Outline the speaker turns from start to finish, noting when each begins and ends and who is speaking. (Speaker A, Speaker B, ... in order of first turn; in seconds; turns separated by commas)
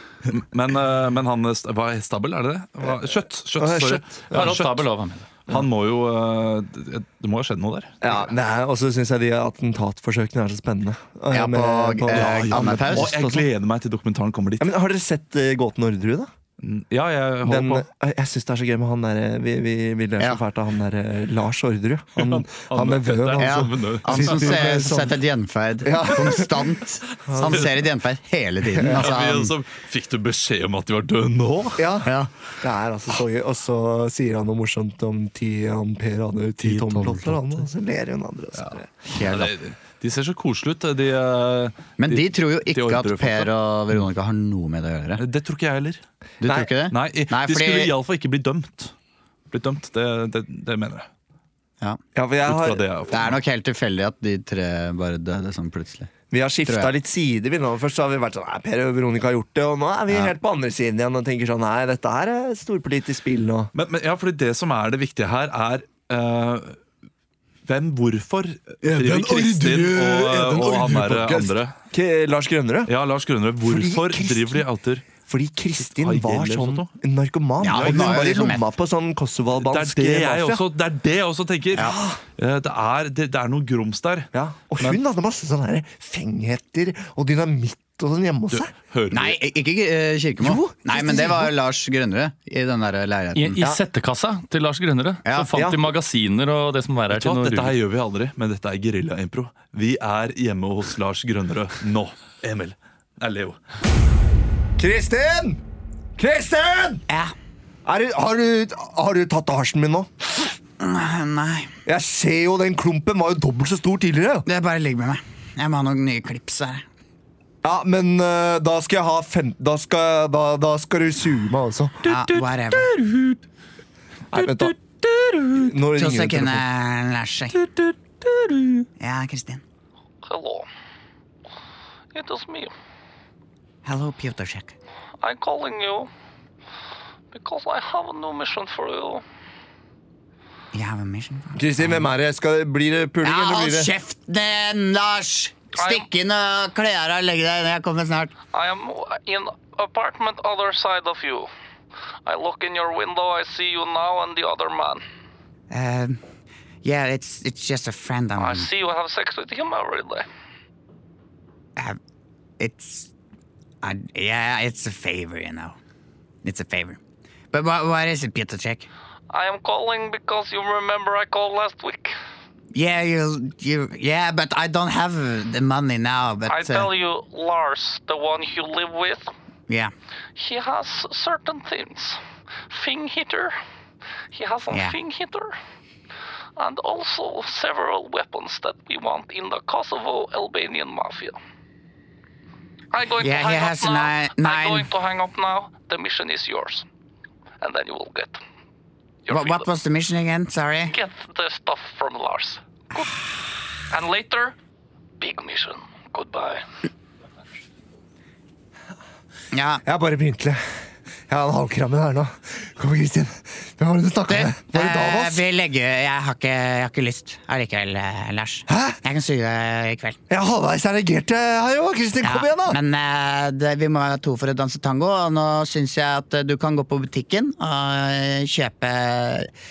Speaker A: 0.3-4.9, Speaker B: 3.6-4.5, Speaker C: 4.3-5.3, Speaker A: 5.4-7.9, Speaker B: 8.0-13.5, Speaker D: 11.3-13.1, Speaker A: 12.1-14.7, Speaker B: 14.6-16.3, Speaker A: 16.6-17.9, Speaker B: 17.4-25.2, Speaker A: 22.1-24.8, Speaker D: 23.4-29.5, Speaker B: 25.8-26.7, Speaker B: 27.2-27.7, Speaker B: 28.7-29.1, Speaker A: 28.8-31.9, Speaker B: 31.8-38.9, Speaker D: 32.0-32.3, Speaker D: 36.6-37.4, Speaker D: 38.6-39.5, Speaker A: 39.1-43.5, Speaker D: 42.0-45.2, Speaker A: 45.2-46.0, Speaker D: 46.4-47.9, Speaker B: 46.4-46.7, Speaker A: 46.9-48.9, Speaker A: 49.5-51.1, Speaker B: 52.1-52.9, Speaker A: 52.4-53.4, Speaker D: 53.1-56.1, Speaker B: 56.3-63.7, Speaker D: 56.7-56.9, Speaker A: 63.7-66.8, Speaker A: 67.7-71.7, Speaker B: 71.9-72.9, Speaker A: 72.9-75.1, Speaker B: 73.6-74.6, Speaker B: 75.2-80.6, Speaker A: 75.8-76.9, Speaker D: 77.6-78.7, Speaker A: 77.7-78.4, Speaker A: 79.6-84.3, Speaker B: 81.8-82.2, Speaker B: 84.3-88.7, Speaker A: 88.5-89.4, Speaker D: 89.1-93.6, Speaker B: 90.4-91.5, Speaker C: 93.3-97.7, Speaker B: 95.5-95.8, Speaker A: 97.1-103.6, Speaker B: 104.8-105.6, Speaker B: 106.2-107.0, Speaker D: 107.1-107.3, Speaker B: 107.8-110.1, Speaker D: 110.8-111.7, Speaker B: 111.8-114.5, Speaker D: 114.5-116.8, Speaker B: 117.6-122.4, Speaker D: 122.0-123.0, Speaker B: 124.3-124.8, Speaker B: 125.5-126.6, Speaker D: 126.0-127.5, Speaker C: 128.2-128.5, Speaker D: 129.0-129.6, Speaker E: 130.2-130.7, Speaker E: 132.1-132.7, Speaker D: 133.8-134.7, Speaker E: 135.2-136.1, Speaker E: 137.3-139.2, Speaker D: 140.7-142.0, Speaker B: 141.5-143.9, Speaker D: 143.2-148.3, Speaker E: 145.7-146.1, Speaker E: 148.5-151.5, Speaker E: 152.2-155.0, Speaker D: 155.7-156.2, Speaker D: 156.8-158.7, Speaker E: 158.3-160.2, Speaker D: 162.6-163.1, Speaker D: 163.8-165.8, Speaker D: 166.4-167.0, Speaker D: 167.5-168.9, Speaker E: 169.3-172.2, Speaker D: 172.7-176.9, Speaker E: 176.4-179.3, Speaker E: 180.3-183.5, Speaker E: 184.3-185.5, Speaker D: 184.7-185.0, Speaker E: 186.6-191.4, Speaker E: 192.9-196.8, Speaker D: 193.2-194.9, Speaker E: 197.6-198.4, Speaker E: 199.2-199.7, Speaker D: 199.3-200.9, Speaker E: 200.8-203.3, Speaker E: 203.9-204.5, Speaker E: 205.2-206.6, Speaker D: 209.5-209.8, Speaker B: 209.8-215.4, Speaker D: 214.3-220.2, Speaker B: 218.7-219.0, Speaker B: 220.3-222.8, Speaker D: 222.2-229.5